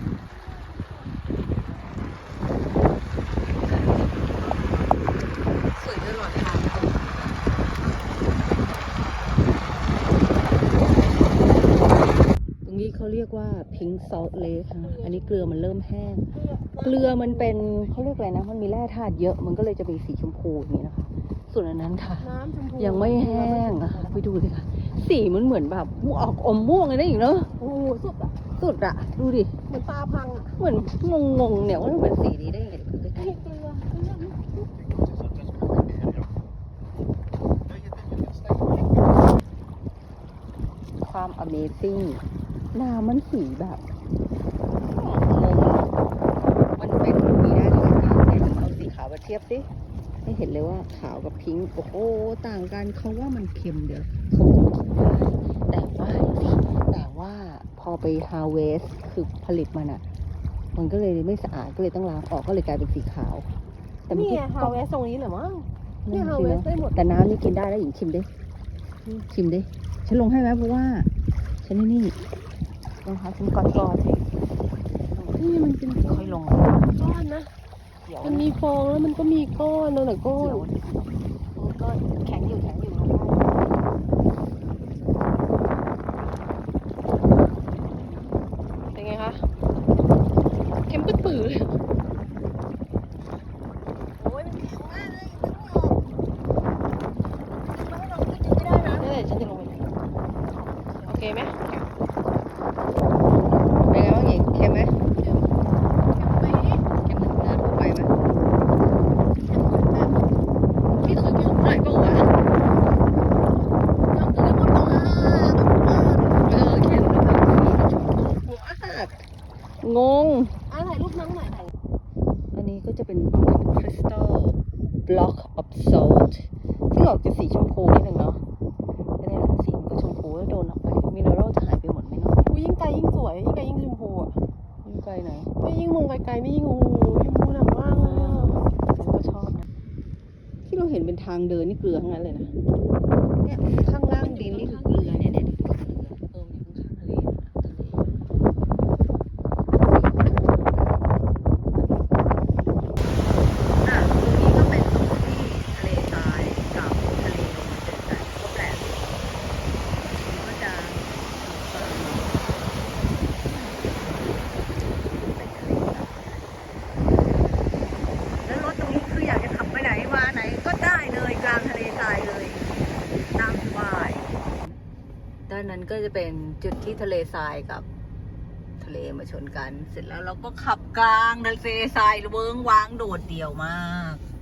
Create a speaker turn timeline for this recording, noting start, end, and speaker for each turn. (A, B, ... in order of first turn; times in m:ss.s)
0:03.5-0:05.0 A
0:05.6-0:07.7 A
0:12.6-0:27.5 A
0:16.4-0:17.4 B
0:22.2-0:24.1 B
0:27.6-0:28.4 B
0:28.5-0:29.6 A
0:29.7-0:30.5 B
0:30.5-0:33.6 A
0:33.4-0:34.6 B
0:41.0-0:43.9 A
0:44.8-0:45.9 A
0:46.8-0:49.7 A
0:50.2-1:00.0 A
1:00.7-1:03.5 A
1:04.1-1:04.8 A
1:04.1-1:07.0 B
1:06.0-1:08.3 A
1:09.1-1:11.1 A
1:11.6-1:12.2 A
1:13.0-1:14.3 A
1:15.0-1:17.0 A
1:15.4-1:16.4 B
1:16.9-1:17.5 B
1:18.0-1:18.6 A
1:18.2-1:20.7 B
1:20.3-1:20.9 A
1:21.5-1:23.7 A
1:28.9-1:29.4 B
1:30.8-1:31.8 B
1:34.2-1:36.0 A
1:37.4-1:39.1 A
1:39.0-1:39.8 B
1:41.0-1:41.9 A
1:41.0-1:41.6 B
1:43.7-1:45.0 A
1:46.1-1:46.8 B
1:46.9-1:48.1 A
1:49.4-1:50.3 B
1:51.0-1:52.3 A
1:54.2-1:59.2 A
1:59.8-2:00.6 A
2:00.7-2:01.7 B
2:02.5-2:08.4 A
2:09.2-2:12.4 A
2:12.5-2:14.4 B
2:14.8-2:15.5 A
2:15.6-2:18.6 B
2:17.9-2:19.6 A
2:20.6-2:22.5 A
2:23.4-2:28.1 A
2:24.2-2:25.3 B
2:29.9-2:30.8 A
2:33.8-2:39.2 A
2:40.0-2:42.4 A
2:43.4-2:46.2 A
2:48.4-2:54.8 A
2:55.5-2:57.9 A
2:58.8-3:04.2 A